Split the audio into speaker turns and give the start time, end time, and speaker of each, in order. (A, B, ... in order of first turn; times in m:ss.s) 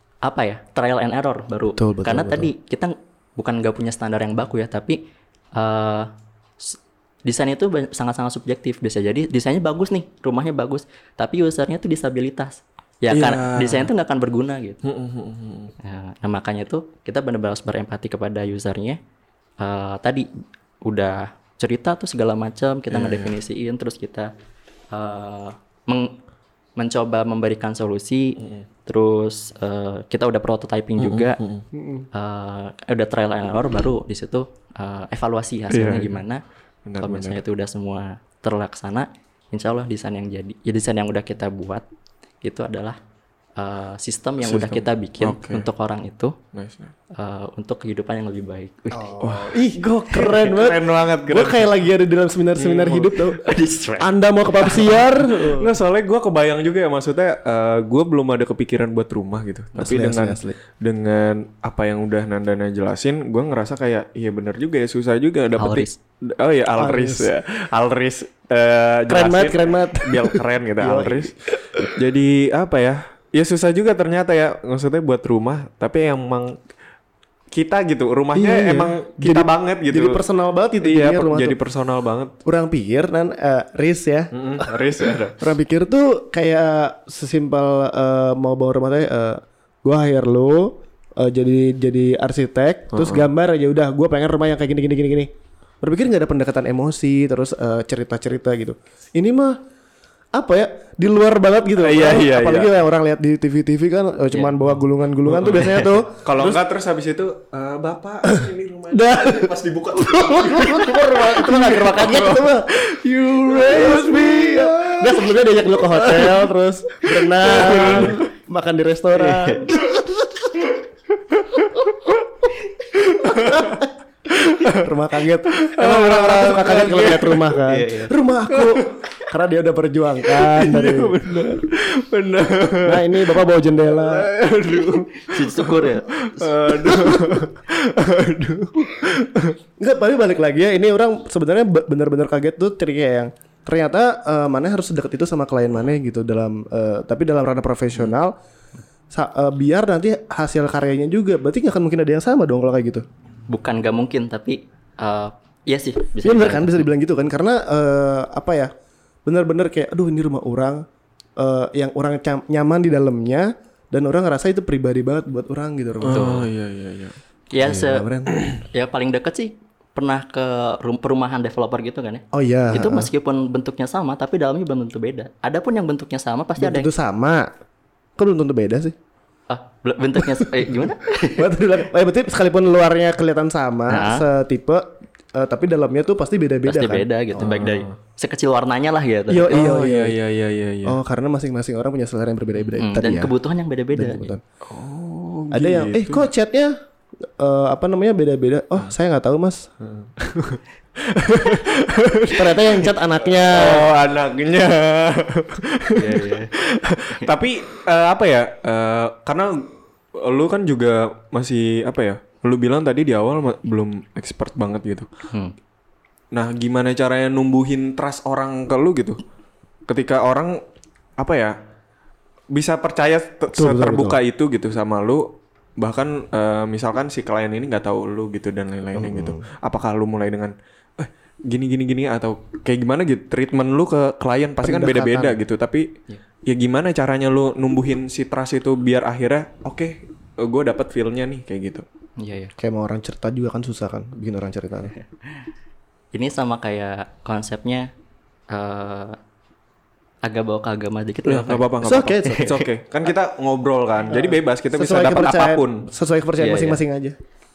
0:00.2-0:05.0 A
0:01.8-0:02.5 B
0:05.6-0:06.1 A
0:06.6-0:14.8 A
0:13.1-0:13.9 C
0:14.8-0:15.7 C
0:15.8-0:19.0 A
0:19.6-0:20.3 A
0:20.8-0:24.3 A
0:22.9-0:23.4 C
0:24.9-0:26.2 A
0:26.8-0:31.4 A
0:31.0-0:31.6 C
0:31.7-0:32.1 B
0:32.1-0:36.4 A
0:35.7-0:36.2 C
0:36.8-0:37.4 C
0:37.0-0:41.8 A
0:42.4-0:43.0 A
0:43.6-0:46.4 A
0:44.4-0:45.6 C
0:46.5-0:46.9 C
0:47.1-0:49.1 A
0:48.9-0:55.7 B
0:49.2-0:51.7 C
0:52.6-0:53.3 C
0:53.4-0:54.9 A
0:55.4-1:16.6 C
0:59.8-1:00.6 B
1:05.6-1:06.0 A
1:06.8-1:07.3 B
1:09.1-1:12.0 B
1:17.5-1:20.2 C
1:18.3-1:21.6 B
1:20.8-1:22.3 C
1:22.4-1:35.3 B
1:24.3-1:25.5 C
1:32.9-1:33.2 C
1:35.8-1:39.6 B
1:40.3-1:46.6 B
1:41.8-1:42.7 C
1:44.3-1:44.6 A
1:45.4-1:45.9 A
1:46.2-1:55.4 C
1:48.2-2:00.5 B
1:55.9-1:56.3 C
1:57.0-1:58.2 C
1:59.2-1:59.8 A
2:01.4-2:02.2 C
2:03.0-2:03.8 C
2:03.2-2:11.6 B
2:04.3-2:04.9 C
2:05.6-2:07.6 C
2:07.7-2:08.1 A
2:08.5-2:08.9 C
2:10.2-2:19.6 C
2:12.8-2:14.3 B
2:15.1-2:16.2 A
2:16.7-2:17.5 B
2:19.8-2:28.4 B
2:29.1-2:33.0 B
2:33.5-2:36.8 A
2:36.2-2:38.7 B
2:39.2-2:40.8 B
2:41.4-2:46.4 B
2:46.0-2:47.2 C
2:46.1-2:46.4 A
2:47.5-2:56.9 A
2:47.6-2:48.4 B
2:52.3-2:53.1 B
2:56.6-2:57.5 B
2:58.2-2:59.0 B
2:59.5-3:01.5 A
3:00.3-3:00.8 B
3:01.3-3:07.7 B
3:03.9-3:04.3 A
3:06.7-3:09.6 A
3:07.4-3:07.9 C
3:09.3-3:10.2 B
3:09.5-3:11.0 C
3:10.8-3:13.3 B
3:12.8-3:14.3 A
3:13.9-3:14.4 B
3:14.7-3:16.3 C
3:15.5-3:16.8 B
3:17.4-3:19.7 B
3:19.8-3:35.1 C
3:22.3-3:24.0 B
3:26.0-3:26.5 A
3:36.3-3:39.2 C
3:39.9-3:40.6 C
3:41.2-3:41.6 C
3:42.5-3:45.3 C
3:43.5-3:44.2 B
3:45.8-3:55.9 C
3:49.0-3:49.4 B
3:54.6-3:55.4 B
3:56.5-4:01.8 C
4:02.2-4:02.5 A
4:02.6-4:04.9 B
4:06.1-4:07.9 A
4:08.5-4:09.2 A
4:10.2-4:11.7 A
4:11.3-4:15.9 C
4:11.8-4:12.5 B
4:12.3-4:12.6 A
4:14.1-4:17.2 B
4:16.4-4:16.8 A